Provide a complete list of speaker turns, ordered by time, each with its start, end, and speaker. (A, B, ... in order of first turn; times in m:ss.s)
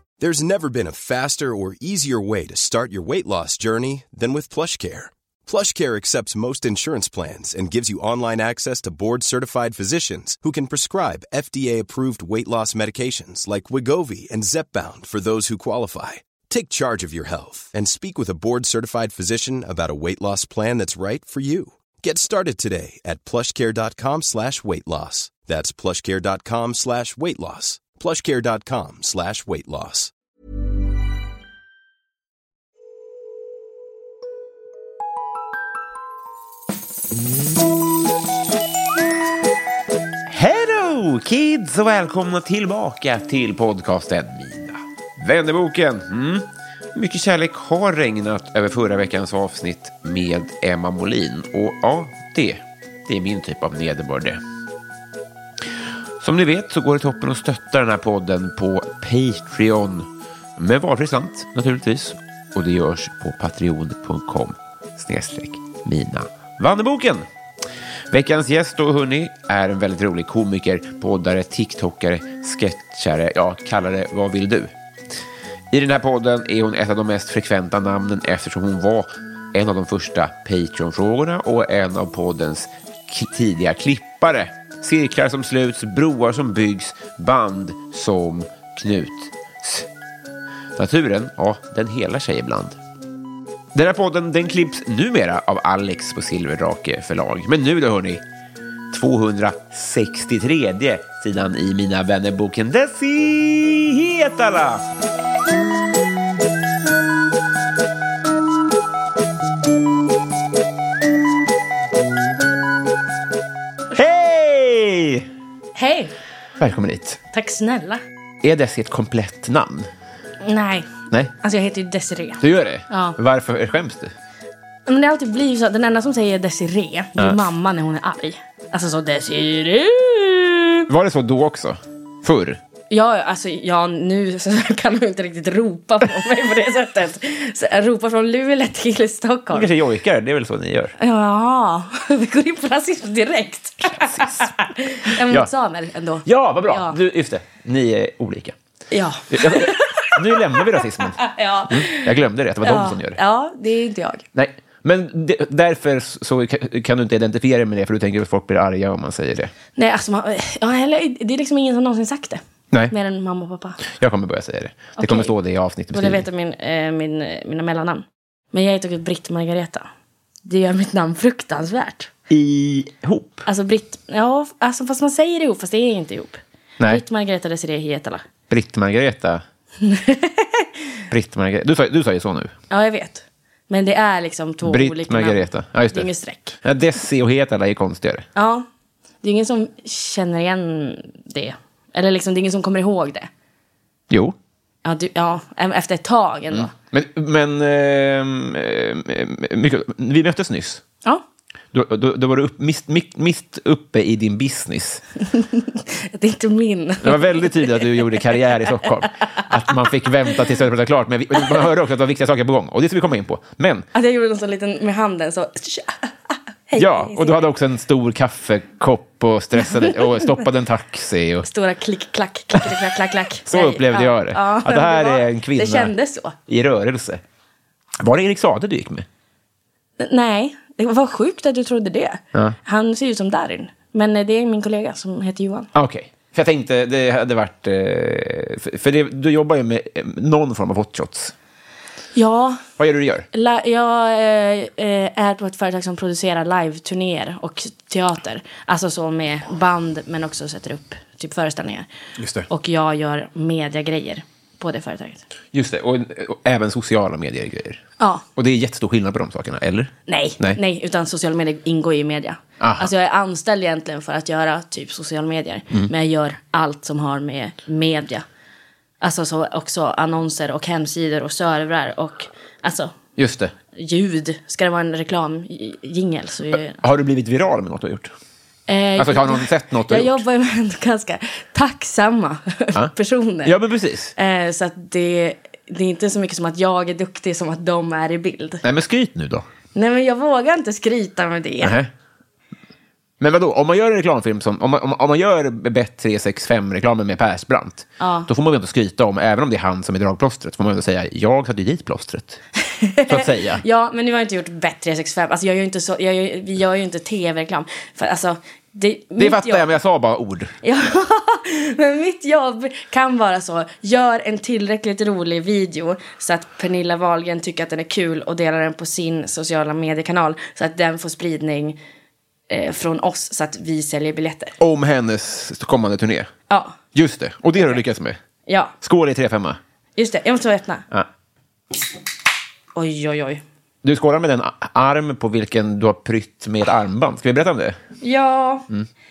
0:00.2-0:30.1 A
0:40.3-0:54.4 B
0:56.2-1:07.3 B
1:08.1-1:14.7 B
1:15.7-1:29.9 B
1:30.8-1:32.8 B
1:33.7-1:38.2 B
1:38.9-1:44.8 B
1:53.9-1:55.3 B
1:55.8-1:56.1 C
1:56.6-1:57.2 B
1:57.3-1:58.0 C
1:58.4-1:59.9 B
2:00.4-2:03.2 C
2:02.4-2:04.1 B
2:04.9-2:10.9 C
2:10.9-2:12.6 B
2:12.9-2:19.7 C
2:19.5-2:20.9 B
2:21.0-2:27.0 C
2:24.0-2:24.5 B
2:25.0-2:25.5 B
2:26.2-2:28.6 B
2:28.9-2:34.2 C
2:29.3-2:33.2 B
2:34.4-2:39.5 B
2:39.8-2:43.8 C
2:43.9-2:46.2 B
2:45.0-2:45.3 C
2:45.9-2:49.9 C
2:50.4-2:52.1 C
2:52.3-2:53.5 B
2:53.5-2:58.2 C
2:58.5-2:59.4 B
2:59.8-3:00.7 C
3:01.1-3:02.5 B
3:02.7-3:06.6 C
3:04.6-3:06.1 B
3:06.6-3:08.3 B
3:08.4-3:08.7 C
3:09.2-3:13.3 C
3:14.1-3:14.4 B
3:14.8-3:16.7 C
3:16.5-3:20.8 B
3:21.7-3:25.0 B
3:25.3-3:28.2 C
3:27.0-3:33.9 B
3:33.9-3:37.5 C
3:36.8-3:41.5 B
3:39.6-3:40.4 C
3:41.4-3:46.4 C
3:42.6-3:42.8 B
3:43.4-3:45.9 B
3:46.5-3:47.2 B
3:48.0-3:49.1 B
3:50.0-3:55.7 C
3:55.7-4:01.3 B
4:02.2-4:02.6 C
4:02.8-4:03.3 B
4:03.3-4:11.9 C
4:12.2-4:12.5 B
4:12.5-4:15.2 C
4:15.5-4:17.8 B
4:18.0-4:18.2 C
4:18.4-4:20.6 B
4:20.1-4:28.2 C
4:22.6-4:22.9 B
4:29.0-4:33.0 C
4:33.2-4:33.5 B
4:33.8-4:36.8 C
4:36.8-4:38.1 B
4:38.7-4:43.6 C
4:39.0-4:40.2 B
4:43.4-4:44.1 B
4:44.2-4:48.6 C
4:48.6-4:49.5 B
4:49.7-4:51.8 C
4:51.6-4:51.9 B
4:53.2-5:02.4 B
4:58.0-4:58.3 C
5:02.7-5:09.8 C
5:03.1-5:03.6 B
5:09.2-5:10.5 B
5:10.6-5:21.8 C
5:22.5-5:24.6 C
5:24.6-5:26.3 B
5:26.5-5:26.8 C
5:26.9-5:28.2 B
5:28.5-5:28.7 C
5:28.8-5:29.6 B
5:30.0-5:30.8 C
5:32.8-5:33.4 C
5:33.8-5:37.8 B
5:38.0-5:38.7 C